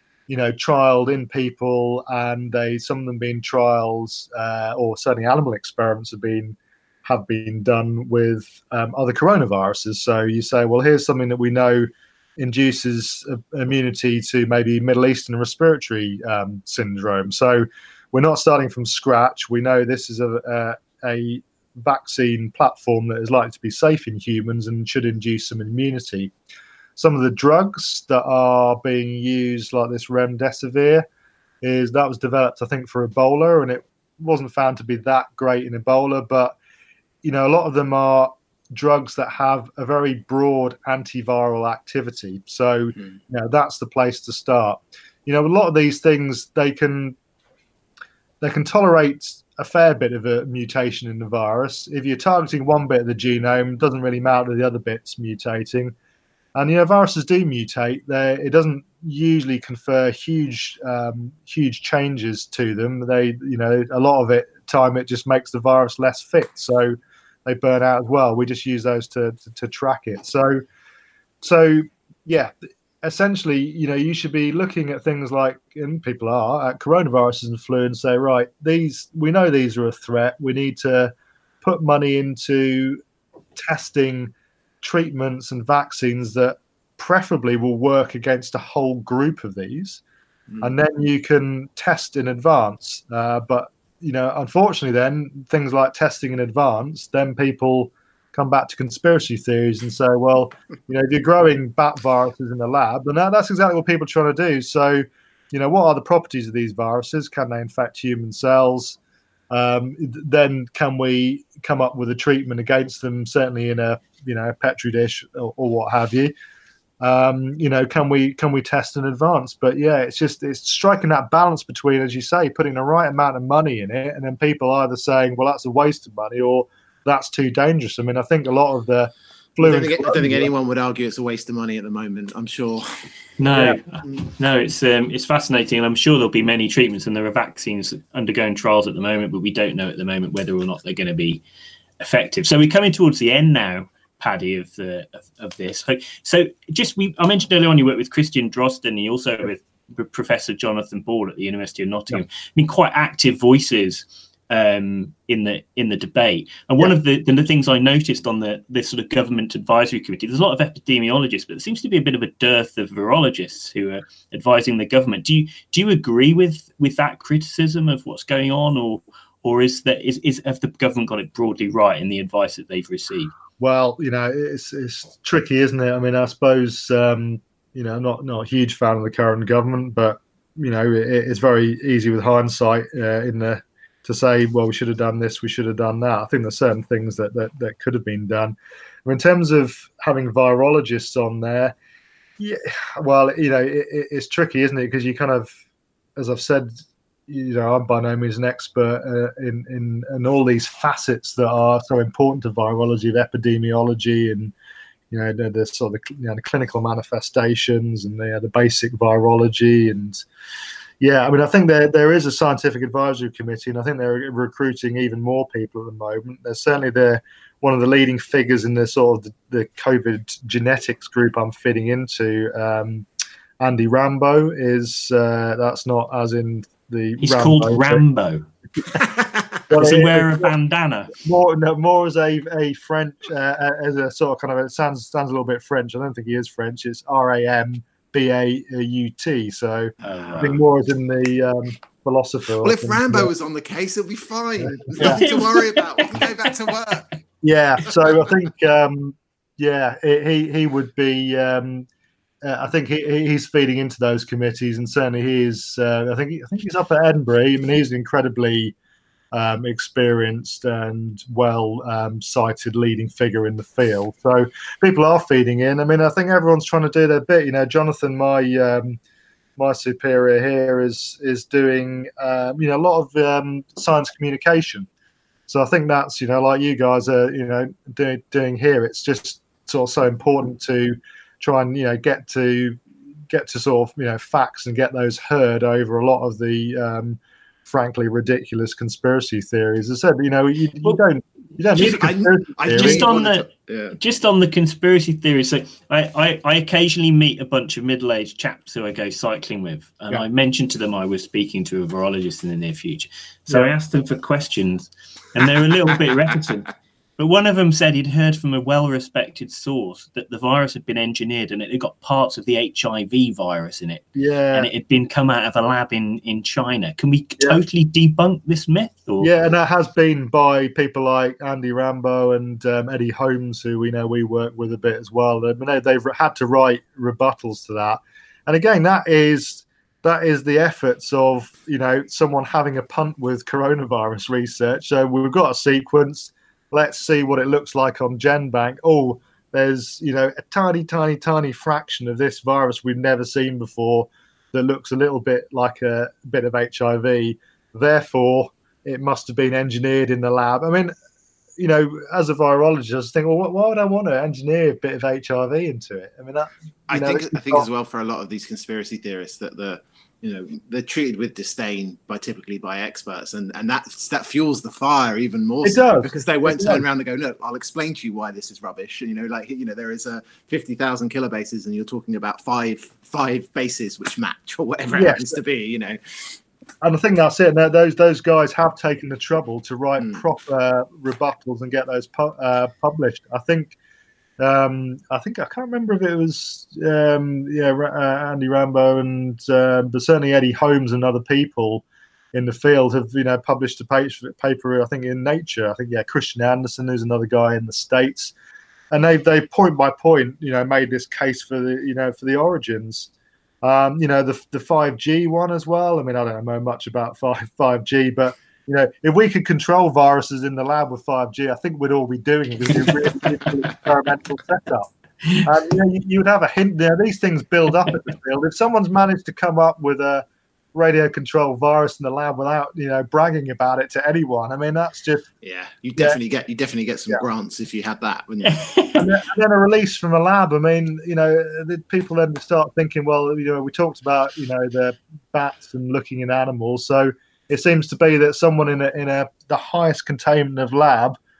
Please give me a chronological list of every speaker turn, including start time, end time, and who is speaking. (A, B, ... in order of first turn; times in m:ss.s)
0:00.3-0:26.3 A
0:27.0-0:31.1 A
0:31.6-0:36.6 A
0:37.2-0:47.2 A
0:48.4-0:55.9 A
0:56.6-1:07.0 A
1:07.5-1:10.6 A
1:11.4-1:23.0 A
1:23.6-1:30.0 A
1:30.6-1:49.0 A
1:49.5-1:56.3 A
1:57.0-2:10.5 A
2:09.6-2:13.1 B
2:13.4-2:21.4 C
2:13.5-2:13.8 A
2:22.0-2:53.3 C
2:53.6-3:11.8 A
3:12.4-3:15.5 A
3:16.2-3:16.7 A
3:17.3-3:24.5 A
3:25.1-3:30.2 A
3:31.0-3:43.1 A
3:43.6-3:48.0 A
3:47.2-3:48.5 C
3:49.7-3:50.5 A
3:49.7-3:51.1 C
3:51.1-4:03.3 A
4:00.0-4:00.6 C
4:02.6-4:07.2 B
4:04.6-4:05.3 A
4:05.0-4:06.5 C
4:07.4-4:11.9 A
4:12.4-4:18.8 A
4:19.3-4:29.0 A
4:29.6-4:34.9 A
4:35.5-4:53.1 A
4:51.8-4:54.0 B
4:52.7-5:19.3 C
5:14.2-5:14.7 A
5:19.2-5:50.9 A
5:51.6-5:57.7 A
5:56.9-6:16.4 B
6:05.6-6:06.8 A
6:14.9-6:15.4 A
6:16.8-6:23.8 A
6:24.4-6:38.3 A
6:38.9-6:43.1 A
6:43.6-6:54.9 A
6:55.4-7:05.3 A
7:05.4-7:08.7 B
7:08.4-7:09.1 C
7:09.0-7:21.2 A